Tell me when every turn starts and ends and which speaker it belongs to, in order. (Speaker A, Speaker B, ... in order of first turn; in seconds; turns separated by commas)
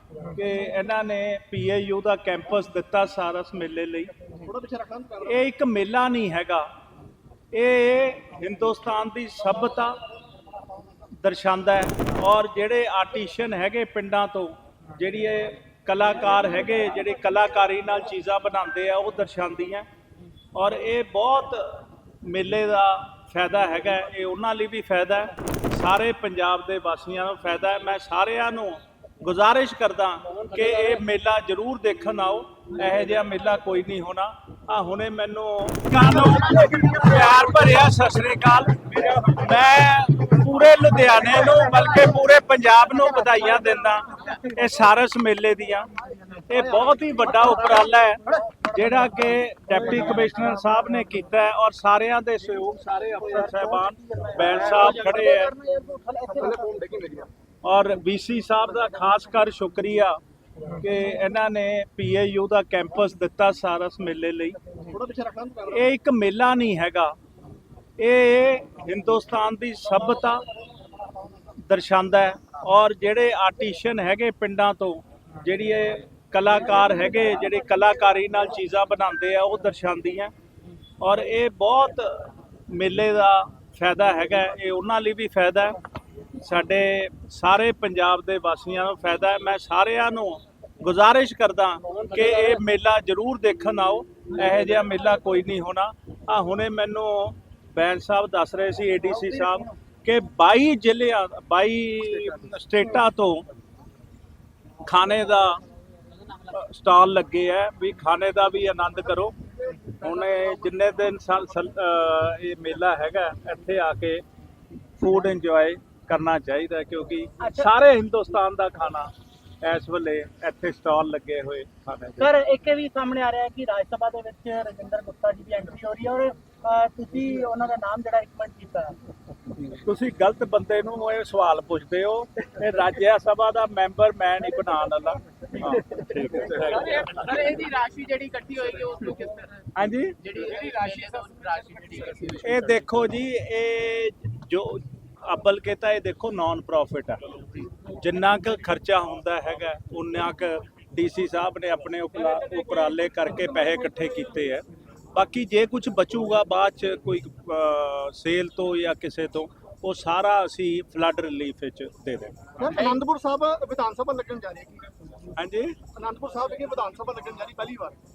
Speaker A: 0.3-4.1, Speaker B: 4.3-5.3, Speaker A: 5.2-6.7, Speaker A: 7.5-10.0, Speaker A: 11.2-19.9, Speaker A: 20.5-55.5, Speaker C: 53.5-56.6, Speaker B: 56.3-57.3, Speaker A: 57.6-60.2, Speaker A: 60.7-64.6, Speaker B: 64.8-65.8, Speaker A: 65.7-67.1, Speaker A: 68.0-70.4, Speaker A: 71.7-80.3, Speaker A: 81.0-85.8, Speaker A: 86.3-103.4, Speaker A: 104.8-105.6, Speaker A: 106.4-109.3, Speaker A: 110.0-114.2, Speaker A: 115.0-122.3, Speaker C: 117.4-117.7, Speaker C: 122.2-129.0, Speaker A: 129.7-137.1, Speaker D: 136.6-139.7, Speaker A: 139.7-140.2, Speaker D: 140.2-142.5, Speaker A: 142.4-162.5, Speaker B: 162.6-164.8, Speaker A: 165.3-165.8, Speaker B: 165.9-168.0